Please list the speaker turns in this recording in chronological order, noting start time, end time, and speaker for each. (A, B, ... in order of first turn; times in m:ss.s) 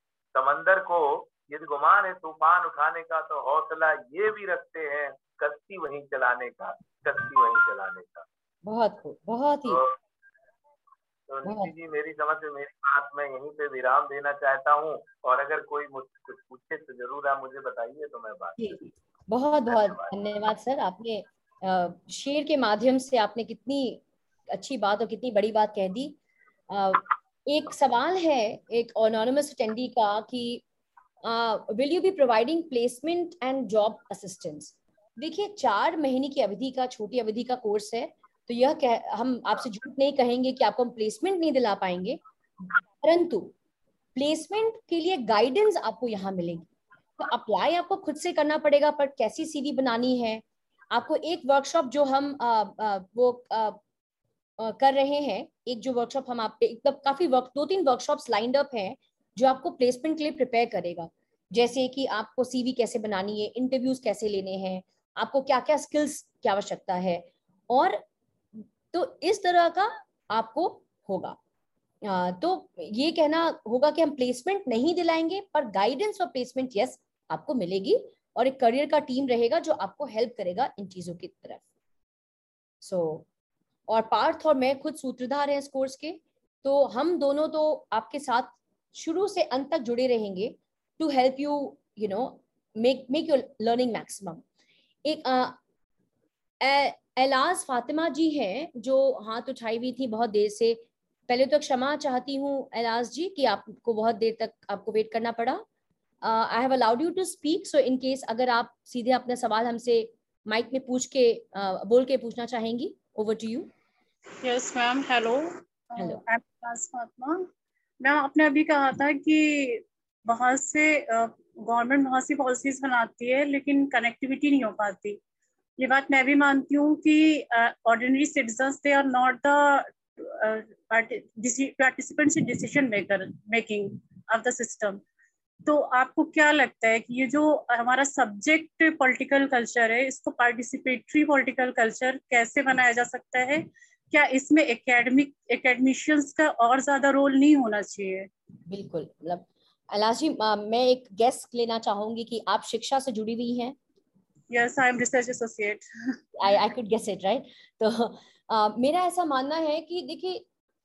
0:00.3-0:08.2 A
0:08.6-0:09.8 B
0:09.7-0:09.9 A
0:11.3-0:18.8 A
0:11.4-0:11.7 B
0:18.6-0:26.2 B
0:19.7-0:20.1 A
0:26.7-0:30.6 B
0:31.2-0:43.5 B
0:44.1-0:53.8 B
0:54.6-1:08.0 B
1:08.6-1:11.4 B
1:12.0-1:21.6 B
1:22.8-1:23.2 B
1:23.9-1:34.4 B
1:35.0-1:35.6 B
1:36.6-1:45.6 B
1:46.2-1:53.7 B
1:54.4-1:57.5 C
1:58.0-2:05.2 C
2:05.8-2:15.0 C
2:15.6-2:28.3 C
2:28.7-2:33.7 B
2:34.5-2:35.8 C
2:36.4-2:40.4 B